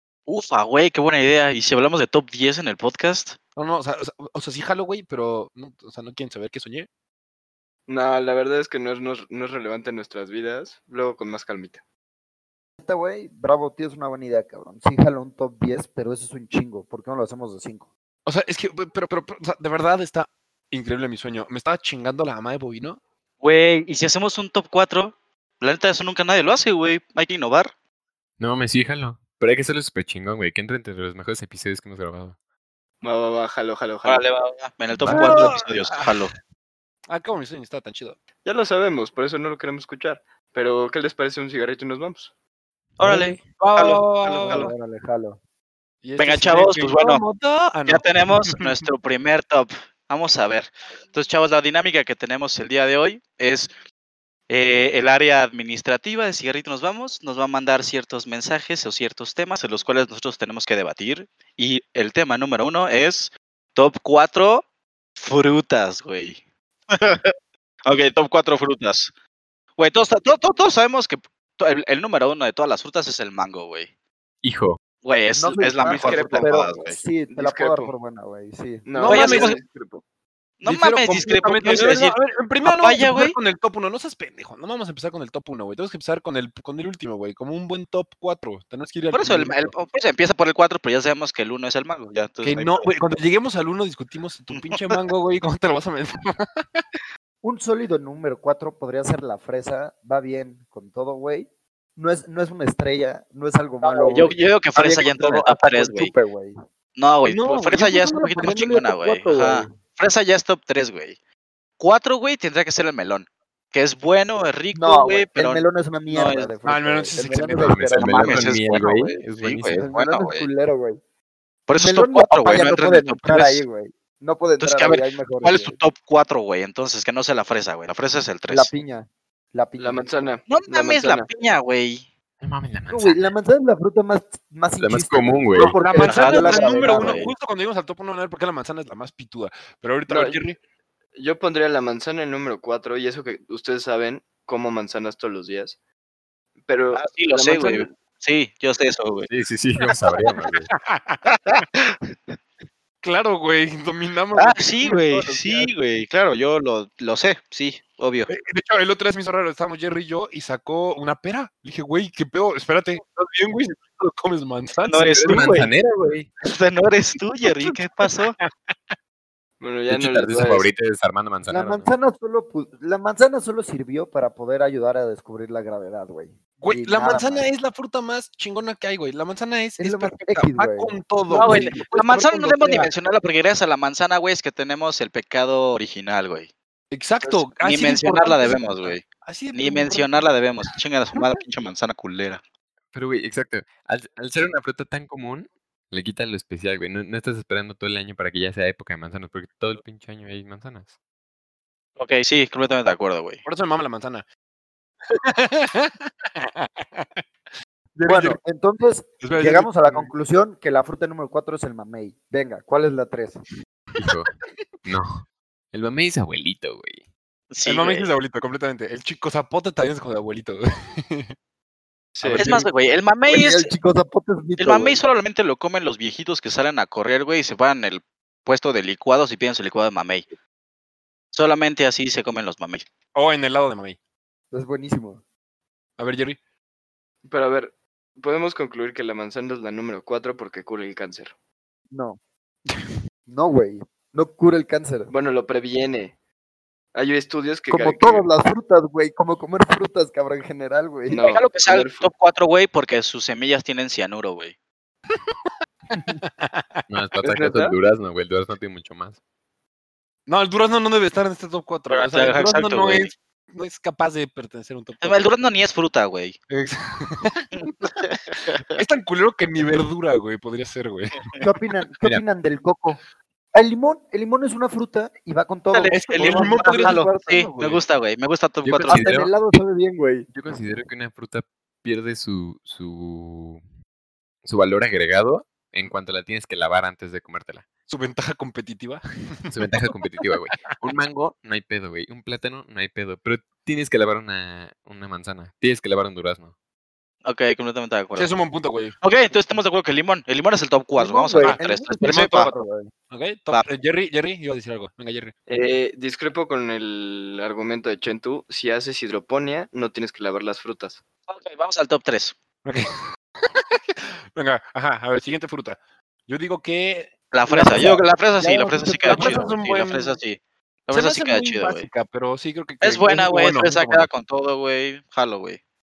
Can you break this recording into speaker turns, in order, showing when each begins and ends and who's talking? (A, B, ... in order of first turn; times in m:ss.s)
0:00.3-0:03.4 A
0:03.6-0:06.9 B
0:07.9-0:11.8 C
0:12.8-0:17.9 D
0:18.2-0:23.0 B
0:23.4-0:27.7 A
0:28.4-0:32.3 E
0:33.0-0:34.3 C
0:34.0-0:36.3 A
0:34.9-0:35.5 E
0:35.1-0:36.2 B
0:37.1-0:38.2 B
0:38.4-0:42.3 C
0:43.0-0:43.4 D
0:43.5-0:44.7 B
0:43.8-0:44.7 A
0:44.2-0:45.4 D
0:46.0-0:48.8 B
0:46.2-0:47.2 A
0:47.8-0:53.7 A
0:54.5-1:04.6 A
1:05.2-1:06.4 A
1:06.9-1:07.3 A
1:07.8-1:09.1 A
1:09.8-1:13.9 A
1:14.4-1:14.8 E
1:15.0-1:17.0 A
1:15.3-1:19.1 D
1:15.8-1:17.9 C
1:18.8-1:20.0 C
1:19.0-1:19.6 B
1:19.1-1:19.6 A
1:20.6-1:23.4 A
1:20.6-1:29.7 B
1:29.1-1:32.9 A
1:32.4-1:36.8 B
1:37.4-1:46.6 D
1:43.9-1:46.1 A
1:47.0-1:51.2 A
1:47.2-1:48.5 B
1:48.4-1:49.8 D
1:51.8-1:56.5 A
1:54.7-1:58.4 D
1:56.6-1:57.9 B
1:57.6-1:59.8 E
1:58.0-2:00.5 A
1:59.8-2:01.0 D
2:01.7-2:03.6 A
2:01.7-2:05.8 D
2:04.6-2:08.7 A
2:08.5-2:10.2 D
2:09.8-2:11.3 C
2:10.5-2:12.0 A
2:12.4-2:13.3 E
2:12.9-2:17.3 D
2:14.8-2:15.7 E
2:15.5-2:20.6 B
2:16.0-2:17.3 A
2:20.1-2:20.4 C
2:21.1-2:25.8 C
2:26.6-2:27.9 C
2:26.9-2:29.3 A
2:29.3-2:30.7 E
2:30.7-2:31.3 B
2:31.2-2:32.1 A
2:33.0-2:35.7 B
2:34.4-2:38.3 A
2:38.3-2:45.7 B
2:44.8-2:45.7 A
2:45.2-2:46.3 E
2:46.4-2:48.4 A
2:48.4-2:48.9 B
2:49.6-2:50.7 C
2:49.9-2:51.9 E
2:51.5-2:57.5 D
2:56.6-3:02.9 B
2:59.8-3:01.9 D
3:01.3-3:06.5 A
3:02.5-3:02.8 D
3:06.9-3:10.3 B
3:07.2-3:09.0 A
3:09.5-3:12.4 A
3:12.9-3:20.9 E
3:22.0-3:23.4 A
3:23.4-3:24.2 B
3:25.1-3:27.2 B
3:27.9-3:28.4 B
3:28.0-3:33.4 D
3:29.2-3:30.1 B
3:33.9-3:34.3 E
3:34.8-3:37.0 E
3:37.5-3:38.1 A
3:37.6-3:41.3 B
3:42.2-3:42.5 C
3:42.2-3:42.7 B
3:42.3-3:43.7 A
3:43.3-3:45.0 D
3:44.6-3:50.2 A
3:51.3-3:52.8 A
3:53.1-3:54.0 B
3:54.5-3:55.2 D
3:56.0-3:56.4 B
3:57.2-4:01.3 C
4:01.9-4:02.2 D
4:03.3-4:05.1 D
4:05.1-4:06.1 C
4:06.9-4:08.3 C
4:07.7-4:11.2 D
4:11.1-4:12.1 C
4:11.2-4:14.5 A
4:15.9-4:16.8 B
4:16.9-4:19.2 E
4:17.2-4:17.8 C
4:20.3-4:25.3 B
4:21.9-4:23.1 A
4:25.0-4:26.4 A
4:26.5-4:27.9 B
4:28.0-4:28.7 A
4:28.7-4:31.2 B
4:31.4-4:33.0 D
4:33.5-4:37.6 D
4:35.7-4:39.1 A
4:35.9-4:37.8 B
4:38.6-4:39.3 E
4:38.8-4:40.3 D
4:40.3-4:43.6 E
4:44.4-4:47.6 E
4:47.9-4:49.5 B
4:49.5-4:56.5 E
4:57.2-4:58.3 A
4:58.1-4:58.9 B
4:59.0-5:02.5 A
5:01.0-5:02.9 D
5:01.4-5:05.3 B
5:05.5-5:11.0 C
5:11.3-5:12.3 A
5:12.6-5:12.9 B
5:13.4-5:17.1 B
5:17.3-5:21.9 A
5:17.5-5:19.6 D
5:19.1-5:20.2 B
5:20.9-5:24.1 B
5:22.8-5:25.6 A